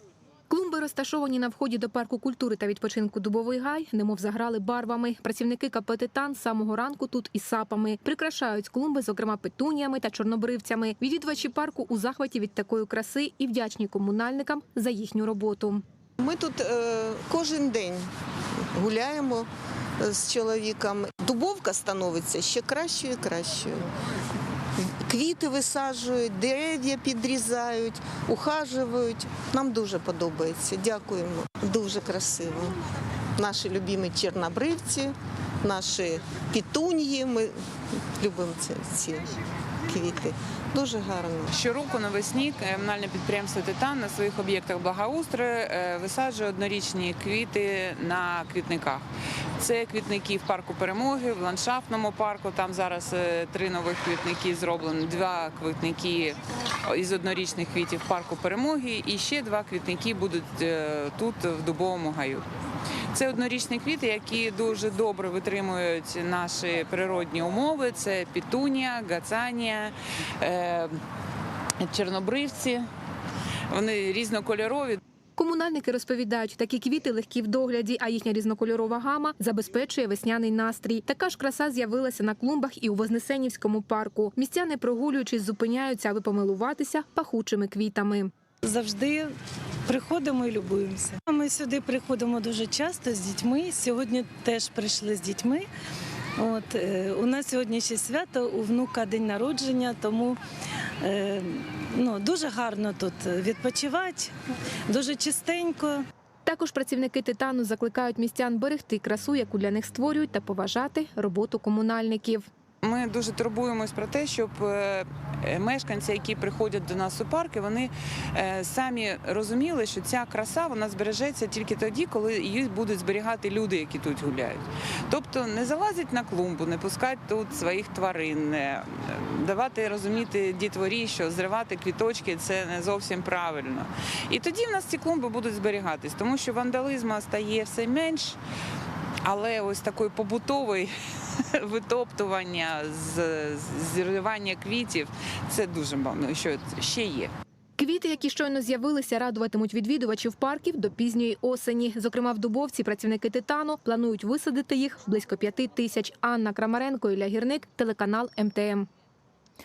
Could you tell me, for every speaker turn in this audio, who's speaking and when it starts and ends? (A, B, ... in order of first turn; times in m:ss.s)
0:00.5-0:15.8 A
0:16.2-0:18.1 B
0:18.7-0:19.5 B
0:20.0-0:23.9 B
0:24.8-0:32.8 B
0:33.4-0:39.3 B
0:39.9-0:41.5 B
0:41.5-0:49.0 C
0:49.6-1:02.4 C
1:03.1-1:11.0 C
1:11.8-1:12.9 C
1:13.7-1:15.0 C
1:15.4-1:28.3 A
1:28.6-1:29.3 D
1:29.9-1:35.6 D
1:36.4-1:40.4 D
1:41.0-1:44.3 D
1:44.9-1:46.0 D
1:46.4-1:52.5 A
1:52.8-2:18.4 C
2:19.2-2:20.9 C
2:21.5-2:27.3 C
2:27.8-2:38.9 A